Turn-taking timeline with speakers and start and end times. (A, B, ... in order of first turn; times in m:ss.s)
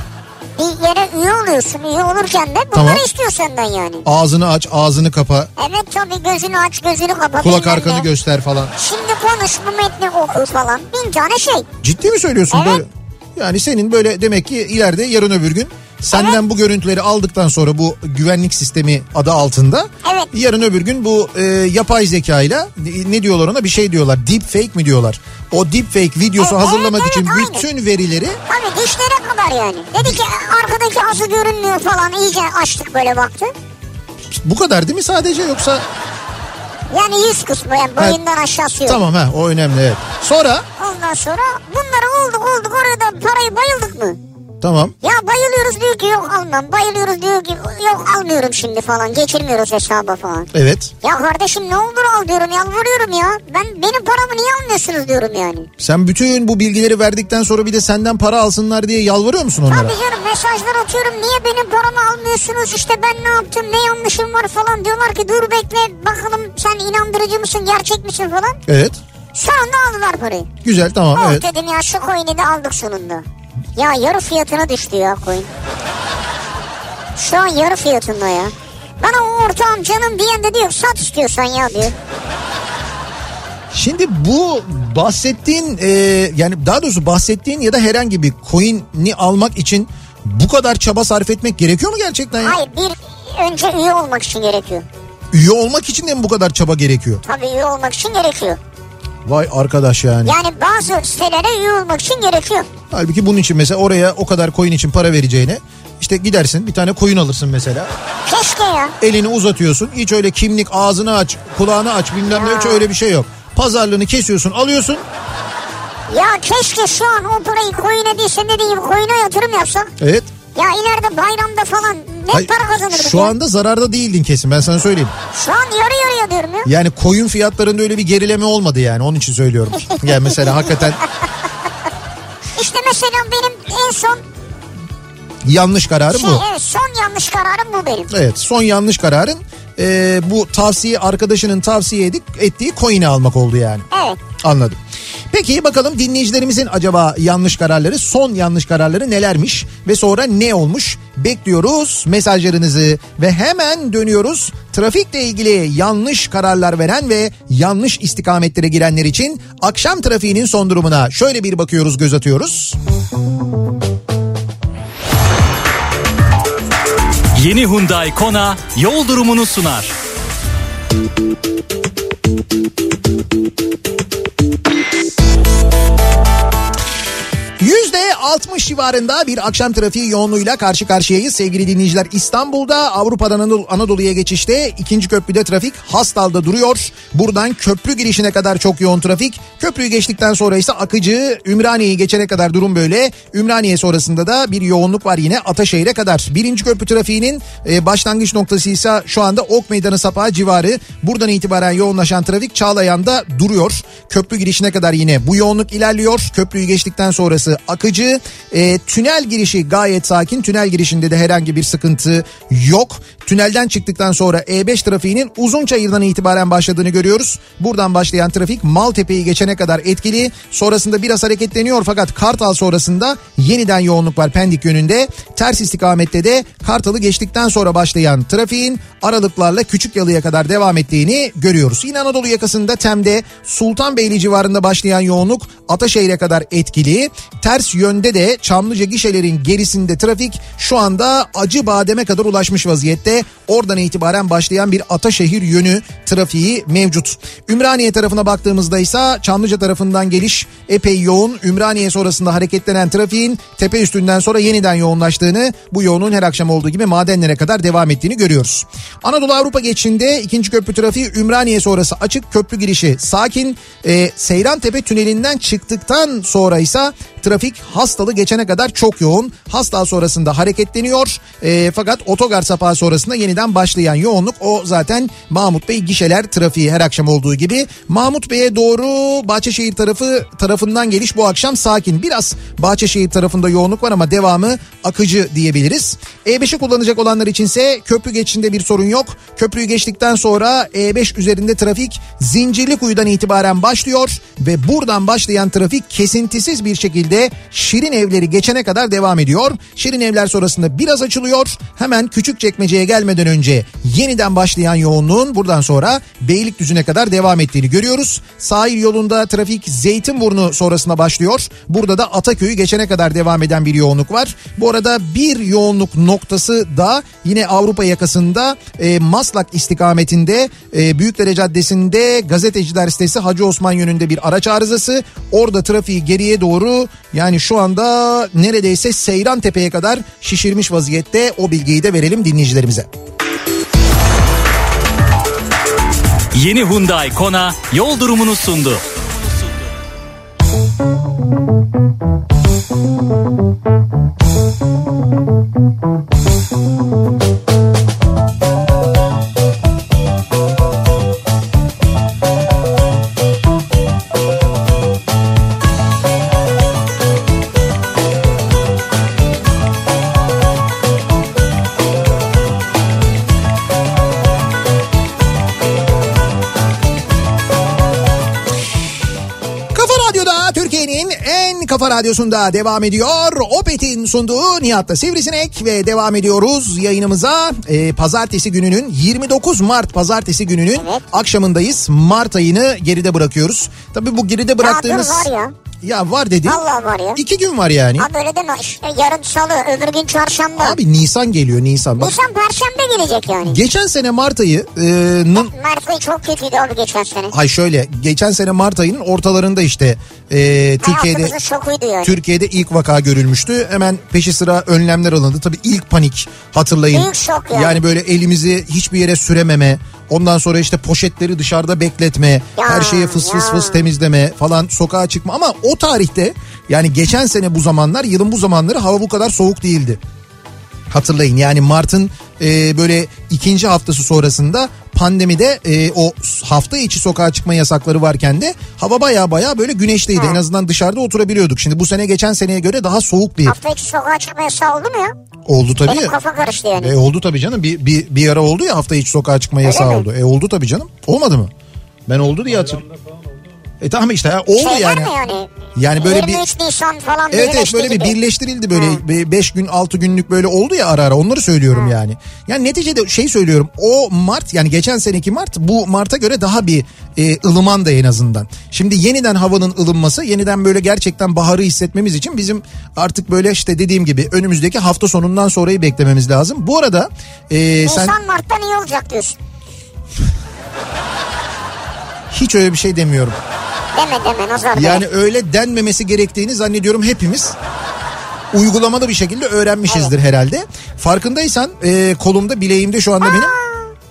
0:00.6-0:04.0 A
0:02.7-0:03.0 B
0:04.0-0:05.5 B
0:05.6-0:08.1 A
0:07.4-0:08.7 B
0:08.8-0:11.7 A
0:11.8-0:28.4 B
0:12.5-0:12.8 A
0:16.1-0:16.4 A
0:20.0-0:20.3 A
0:26.4-0:27.6 A
0:28.5-0:33.5 A
0:34.3-0:35.8 B
0:36.9-0:39.0 A
0:38.9-0:40.7 B
0:40.8-0:44.2 A
0:44.6-0:45.0 B
0:45.0-0:50.5 A
0:50.5-0:50.9 B
0:51.0-0:55.7 A
0:55.8-1:00.0 B
0:59.7-1:08.6 A
1:08.7-1:09.0 B
1:09.3-1:10.5 A
1:10.6-1:11.4 B
1:11.1-1:13.2 A
1:13.8-1:15.5 A
1:17.2-1:21.9 A
1:23.7-1:32.6 B
1:32.4-1:34.9 A
1:35.3-1:37.2 B
1:37.2-1:38.6 A
1:39.2-1:40.4 B
1:40.2-1:42.7 A
1:42.9-1:47.9 B
1:48.3-1:49.0 A
1:49.0-1:55.0 B
1:52.3-1:52.8 A
1:56.1-1:59.9 A
2:00.0-2:00.3 B
2:00.6-2:03.3 A
2:02.3-2:05.1 B
2:05.3-2:06.7 A
2:06.6-2:11.0 B
2:12.6-2:14.2 A
2:15.4-2:16.4 B
2:16.1-2:18.1 A
2:18.1-2:24.8 B
2:23.9-2:24.2 A
2:25.3-2:42.8 B
2:47.4-2:50.0 C
2:57.6-5:32.9 B
5:36.3-5:39.6 C
6:09.7-6:25.3 B
6:20.8-6:21.1 A
6:24.6-6:25.5 A
6:25.8-6:26.6 B
6:26.5-6:27.2 A
6:27.2-6:28.1 B
6:28.0-6:30.8 A
6:30.6-6:32.1 B
6:32.0-6:33.6 A
6:33.4-6:35.5 B
6:35.4-6:37.3 A
6:37.3-6:41.4 B
6:40.8-6:42.2 A
6:42.0-7:00.0 B
6:46.9-6:47.8 A
6:52.6-6:53.8 A
7:00.9-7:13.6 B
7:10.2-7:10.4 A
7:13.5-7:15.2 A
7:15.5-7:16.1 B
7:15.9-7:16.9 A
7:16.8-7:21.5 B
7:19.6-7:20.0 A
7:22.1-7:23.0 B
7:23.8-7:25.2 B
7:24.6-7:28.2 A
7:25.8-7:26.4 B
7:27.3-7:48.2 B
7:28.7-7:29.0 A
7:47.8-7:49.4 A
7:52.3-7:53.4 B
7:53.9-7:55.0 A
7:54.7-7:57.6 B
7:58.5-8:03.5 B
8:03.2-8:03.9 A